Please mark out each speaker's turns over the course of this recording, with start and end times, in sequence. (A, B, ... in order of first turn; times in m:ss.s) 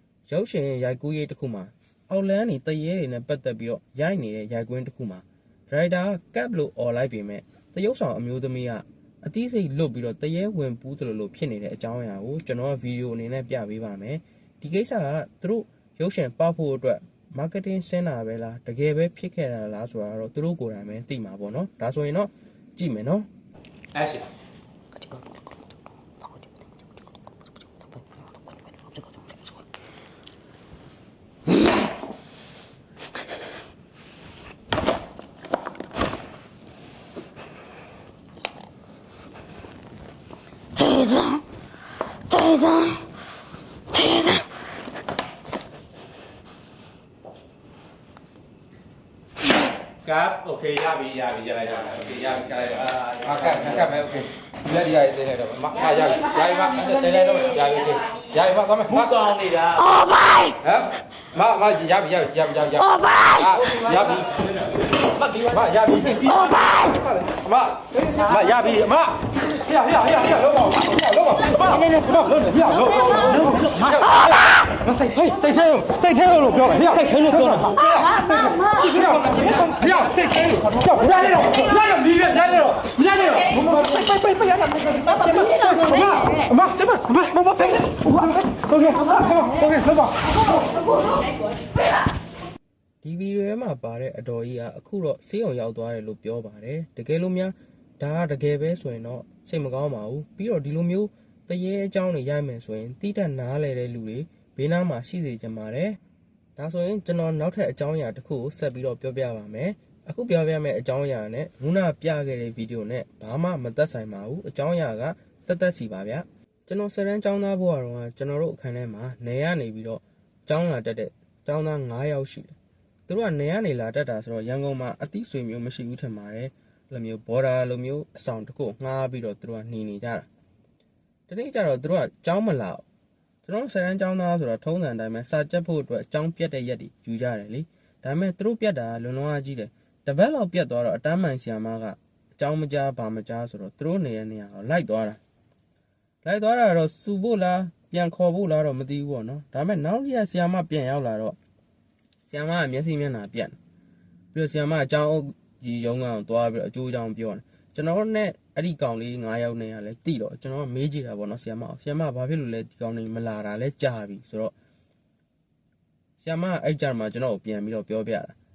0:00.3-0:23.3 A
0:23.9-0:24.2 B
0:40.8-0:41.4 C
0:42.3-0:43.0 C
0:44.0-0:44.4 C
0:50.0-0:53.9 B
0:51.9-0:59.3 D
0:59.0-0:59.9 B
0:59.9-1:00.5 C
1:00.6-1:04.3 D
1:05.2-1:09.2 D
1:09.7-1:30.1 D
1:18.3-1:18.9 C
1:25.4-1:26.5 C
1:33.0-1:46.0 A
1:46.6-2:02.5 A
2:03.1-2:10.3 A
2:11.3-2:12.8 A
2:13.4-2:25.2 A
2:26.2-2:31.4 A
2:32.3-2:33.6 A
2:34.3-2:44.5 A
2:46.2-2:48.3 A